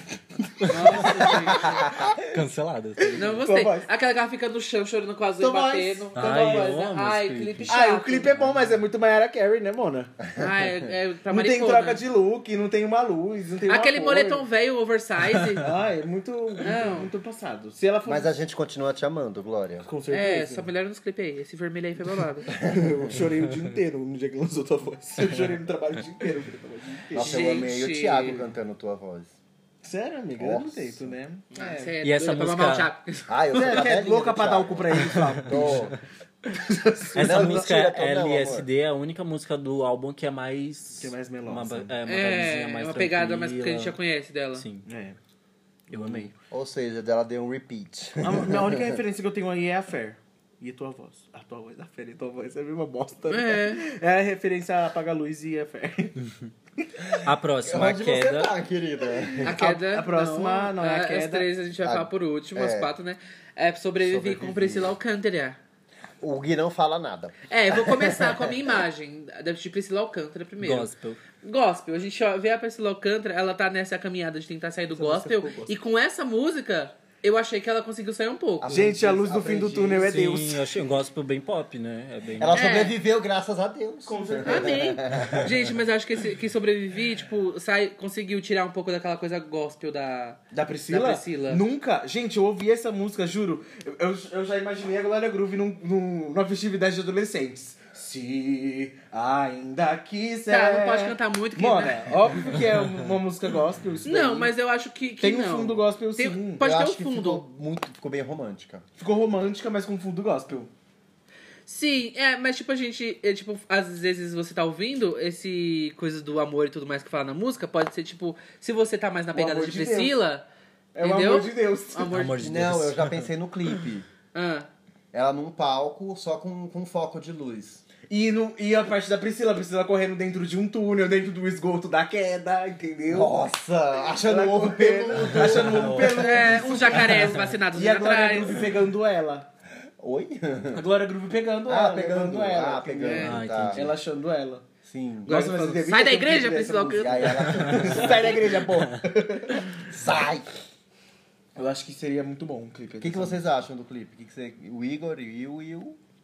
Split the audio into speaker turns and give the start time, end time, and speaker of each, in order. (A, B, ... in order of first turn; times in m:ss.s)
0:00.5-0:01.8 A
0:00.7-0:01.9 B
0:00.9-0:03.4 C
0:01.5-0:02.2 D
0:03.1-0:03.9 A
0:03.2-0:08.4 B
0:05.4-0:06.8 A
0:06.2-0:07.7 C
0:07.7-0:10.2 A
0:10.4-0:12.0 B
0:11.3-0:14.5 A
0:13.7-0:15.7 B
0:15.6-0:18.3 A
0:16.6-0:17.1 B
0:18.0-0:19.9 D
0:19.8-0:20.7 A
0:20.1-0:22.5 B
0:22.6-0:27.5 A
0:22.6-0:23.2 D
0:27.1-0:29.4 D
0:27.2-0:28.5 B
0:29.8-0:31.9 A
0:30.4-0:31.2 D
0:31.5-0:33.8 B
0:32.0-0:32.9 C
0:33.3-0:36.0 D
0:33.5-0:36.0 A
0:35.0-0:35.8 C
0:36.5-0:37.7 A
0:37.1-0:44.0 C
0:37.2-0:38.7 D
0:41.0-0:41.9 A
0:42.1-0:44.6 B
0:44.6-0:44.8 C
0:44.9-0:45.2 A
0:45.9-0:46.3 C
0:45.9-0:46.2 A
0:46.0-0:49.0 D
0:48.2-0:56.2 A
0:53.3-0:53.8 B
0:57.2-0:58.5 C
0:57.6-0:59.6 D
0:59.3-1:01.5 A
0:59.4-1:05.6 B
1:01.8-1:02.9 D
1:04.0-1:05.0 D
1:06.2-1:08.5 D
1:07.5-1:10.9 B
1:10.6-1:11.2 C
1:11.4-1:18.8 B
1:14.9-1:15.7 A
1:18.6-1:20.3 D
1:18.7-1:20.6 A
1:20.0-1:22.6 C
1:22.4-1:25.7 D
1:22.5-1:23.0 B
1:24.0-1:25.0 A
1:24.4-1:31.6 B
1:30.5-1:44.5 A
1:40.5-1:42.4 B
1:44.0-1:47.4 B
1:45.2-1:46.7 A
1:46.6-1:48.9 D
1:49.0-1:50.7 A
1:51.7-2:00.5 B
1:59.3-2:00.2 A
2:01.0-2:02.2 A
2:01.0-2:02.4 B
2:02.1-2:03.3 C
2:02.4-2:04.1 D
2:04.3-2:04.7 B
2:05.1-2:07.8 D
2:08.1-2:13.3 A
2:13.1-2:16.6 D
2:14.1-2:19.5 A
2:15.1-2:17.5 C
2:16.2-2:18.6 B
2:20.0-2:20.9 D
2:20.7-2:24.7 A
2:21.6-2:24.0 D
2:23.0-2:23.4 B
2:23.2-2:24.0 C
2:24.8-2:25.5 D
2:25.3-2:27.8 B
2:25.3-2:29.7 A
2:27.0-2:28.6 D
2:29.9-2:30.6 D
2:31.6-2:33.4 A
2:33.0-2:36.0 D